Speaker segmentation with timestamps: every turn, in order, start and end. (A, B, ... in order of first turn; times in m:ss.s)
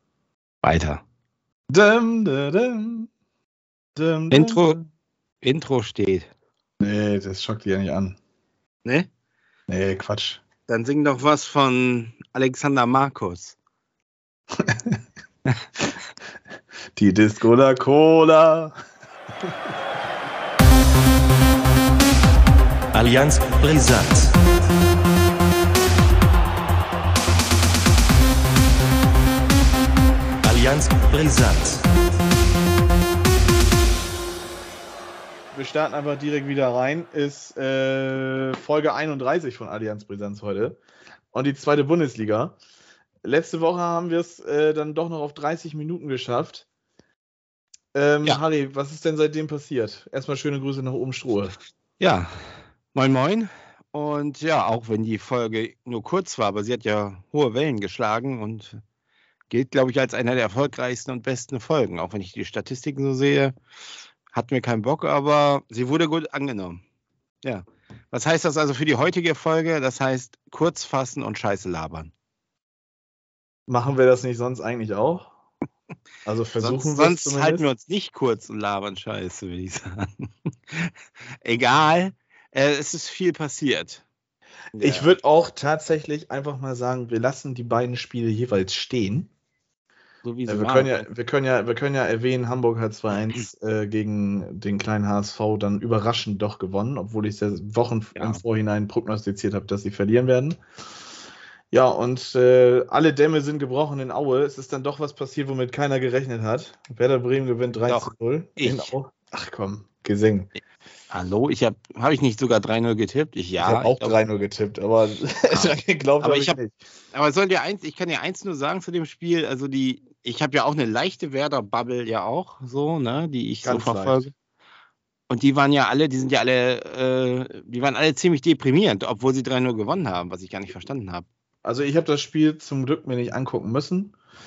0:00.6-0:01.0 A
0:01.7-0:03.1 B
0:04.0-0:04.8 B
0:04.3-0:04.8 A
0:05.4-0:06.3 A
0:06.8-0:08.2 B
0:09.7-0:10.4 B
0:10.7-0:13.6 A
0:14.6-0:15.0 B
0:17.0-0:18.8 B
0:22.9-0:24.3 C
0:30.4-0:31.8 C
0:35.5-0:40.8 B
0:41.3-0:42.6 B
0:43.2-0:46.7 B
0:47.9-0:51.6 B
0:52.0-0:52.3 A
0:52.9-0:58.8 A
0:59.5-1:03.6 A
1:04.3-1:06.8 A
1:07.4-1:12.1 A
1:13.7-1:15.3 B
1:16.2-1:17.7 B
1:16.6-1:24.0 A
1:24.8-1:25.1 A
1:24.8-1:29.3 B
1:30.2-1:31.1 A
1:30.5-1:40.6 B
1:38.2-1:38.4 A
1:41.7-1:50.5 B
1:47.9-1:48.9 A
1:51.1-1:54.2 A
1:53.6-1:56.8 B
1:55.5-1:56.6 A
1:57.1-2:04.3 A
2:03.6-2:04.3 B
2:05.3-2:11.3 A
2:11.6-2:14.2 B